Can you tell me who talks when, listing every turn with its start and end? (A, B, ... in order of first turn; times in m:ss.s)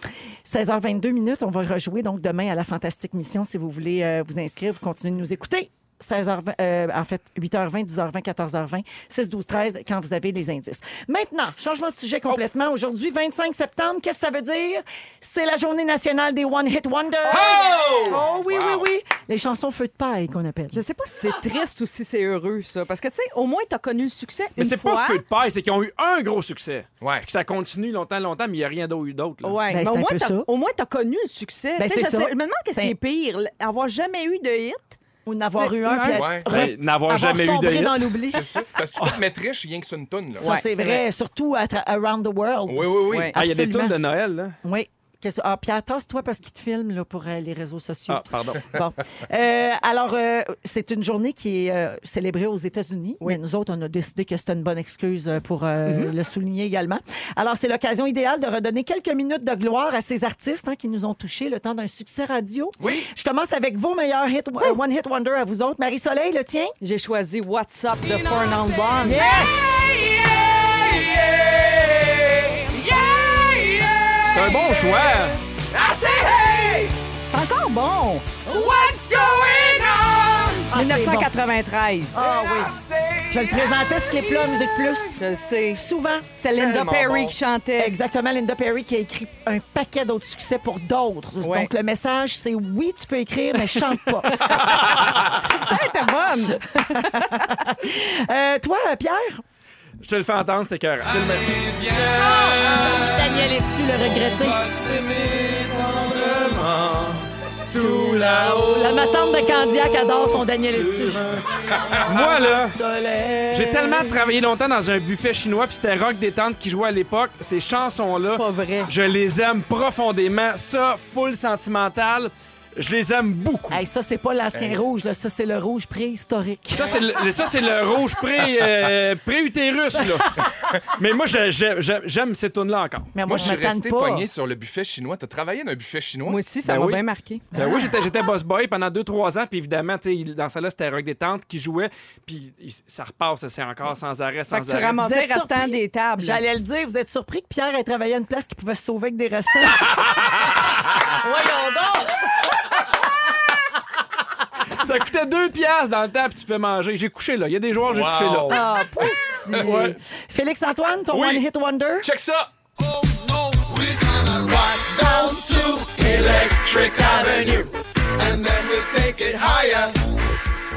0:00.4-0:17.6 A
0:17.3-0:18.2 B
0:17.3-0:18.1 C
0:17.4-0:18.9 D
0:18.1-0:20.8 A
0:20.7-0:25.2 C
0:24.6-0:29.6 B
0:29.4-0:35.0 C
0:29.7-0:30.5 A
0:31.8-0:32.9 A
0:35.2-0:38.5 A
0:35.6-0:36.3 C
0:36.1-0:36.5 D
0:36.5-0:38.3 B
0:38.3-0:40.5 D
0:40.4-0:44.0 A
0:40.4-0:41.0 C
0:42.7-0:43.3 D
0:43.1-0:43.3 C
0:43.3-0:44.6 B
0:44.6-1:06.7 A
0:48.1-0:48.6 B
0:55.8-0:56.1 B
1:06.8-1:09.2 C
1:09.0-1:09.7 A
1:09.4-1:15.1 D
1:14.3-1:15.4 B
1:15.7-1:16.9 D
1:17.3-1:18.4 C
1:18.4-1:20.7 D
1:20.7-1:21.3 A
1:20.7-1:22.2 C
1:22.1-1:22.7 A
1:22.2-1:24.9 D
1:23.3-1:26.3 A
1:25.1-1:25.8 C
1:26.4-1:27.9 C
1:26.5-1:27.4 D
1:27.8-1:34.6 A
1:31.4-1:31.7 C
1:34.3-1:34.8 C
1:35.4-1:37.4 C
1:36.5-1:39.4 A
1:40.0-1:52.8 B
1:42.1-1:44.6 A
1:47.7-1:51.3 A
1:51.7-1:52.0 D
1:52.0-1:54.3 A
1:53.5-2:03.8 B
1:58.3-1:58.9 C
2:03.7-2:07.0 A
2:04.5-2:04.8 D
2:06.7-2:13.5 B
2:10.0-2:10.4 A
2:13.1-2:14.3 A
2:13.2-2:16.4 D
2:16.2-2:17.4 C
2:16.6-2:17.0 B
2:17.5-2:18.0 A
2:17.5-2:25.0 B
2:24.5-2:26.4 C
2:25.0-2:30.4 A
2:31.1-2:32.5 A
2:34.8-2:38.6 B
2:37.9-2:39.8 D
2:38.5-2:42.1 A
2:39.6-2:40.0 B
2:41.1-2:41.4 D
2:42.0-2:50.1 D
2:44.4-2:45.8 A
2:46.9-2:47.7 A